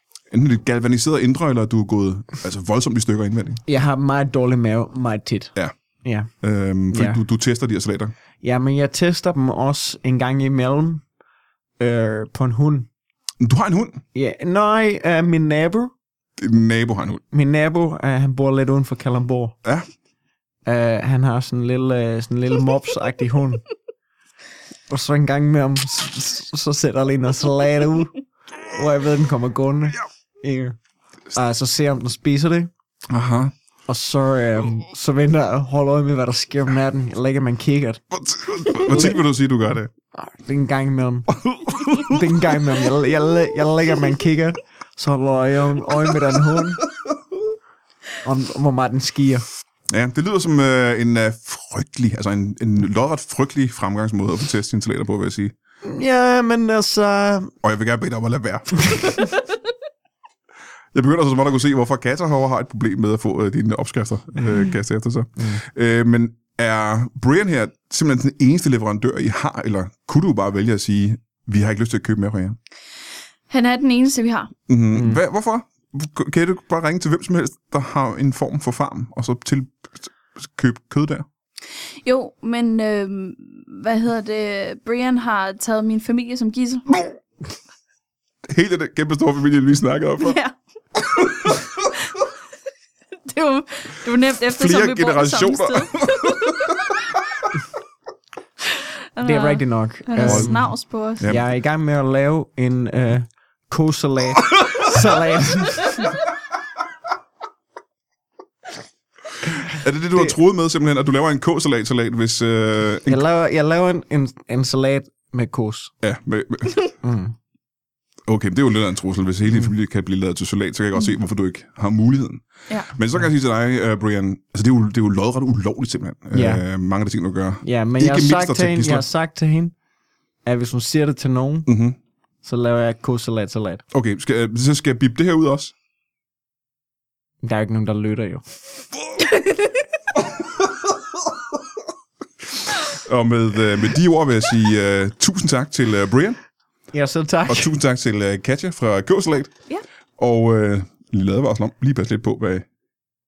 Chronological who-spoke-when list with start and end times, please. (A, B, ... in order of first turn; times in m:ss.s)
0:00.3-0:03.6 A
0:03.7-0:06.3 B
0:06.4-0:08.1 A
0:06.9-0:07.2 B
0:08.4-0:11.0 B
0:11.8-0:12.9 B
0:13.4-0:14.0 A
0:14.1-0:15.9 B
0:16.4-0:17.2 A
0:17.3-0:19.6 B
0:20.7-0:23.6 B
0:24.9-0:28.1 B
0:28.7-0:30.8 B
0:31.3-0:32.7 B
0:33.1-0:33.5 A
0:33.9-0:38.0 B
0:38.1-0:39.9 A
0:38.6-0:39.2 B
0:40.2-0:41.3 B
0:41.3-0:42.2 A
0:42.0-0:46.8 B
0:48.2-0:49.4 B
0:49.9-0:55.5 A
0:55.8-0:57.5 B
0:57.6-0:59.3 A
1:00.9-1:12.6 A
1:13.5-1:14.5 C
1:14.7-1:21.3 A
1:14.9-1:15.2 B
1:22.0-1:27.0 C
1:28.5-1:30.4 A
1:30.2-1:30.5 C
1:31.1-1:31.9 A
1:33.2-1:36.8 C
1:34.5-1:36.9 A
1:39.2-1:41.3 C
1:39.2-1:46.1 B
1:40.2-1:40.6 A
1:41.2-1:41.4 A
1:49.5-1:53.2 A
1:53.1-1:55.9 B
1:56.0-1:56.8 A
1:57.0-1:57.4 B
1:58.3-2:09.1 A
2:06.3-2:06.6 B
2:07.6-2:09.7 B
2:10.4-2:11.7 B
2:11.7-2:12.0 A
2:12.4-2:13.8 B
2:13.9-2:15.7 A
2:17.4-2:18.4 B
2:19.3-2:19.7 C
2:22.9-2:26.4 A
2:26.9-2:27.7 B
2:27.5-2:29.6 A
2:30.2-2:32.7 A